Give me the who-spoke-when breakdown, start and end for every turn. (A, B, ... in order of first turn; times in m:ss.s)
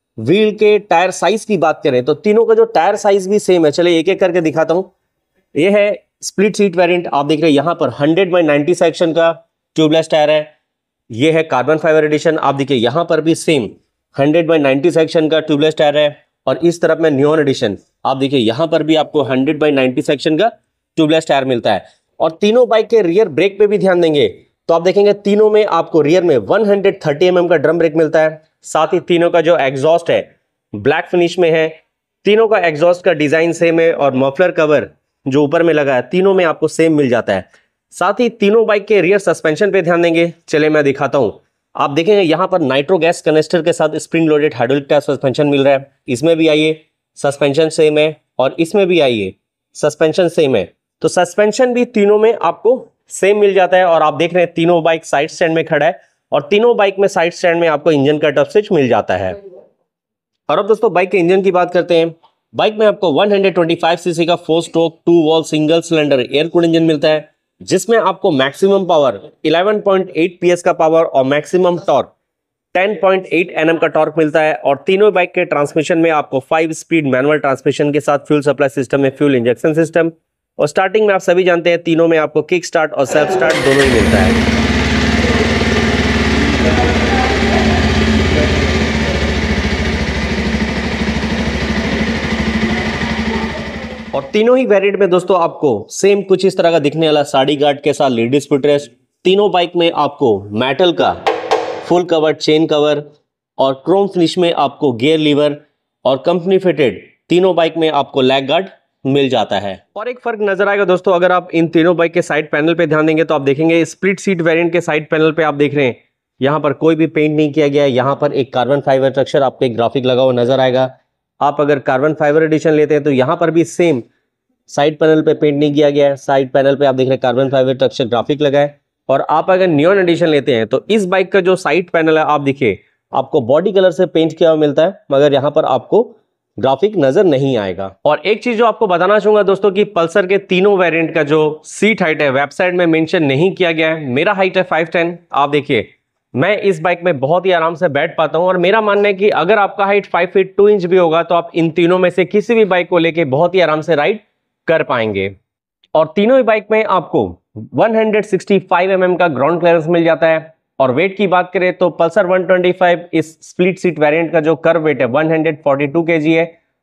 0:00.2-0:04.9 A
0:05.5-0:10.5 A
0:11.1-0:59.4 A
1:00.5-1:12.1 A
1:12.7-1:24.4 A
1:34.1-1:41.2 A
1:41.8-2:04.1 A
2:04.7-2:35.4 A
2:35.9-2:46.5 A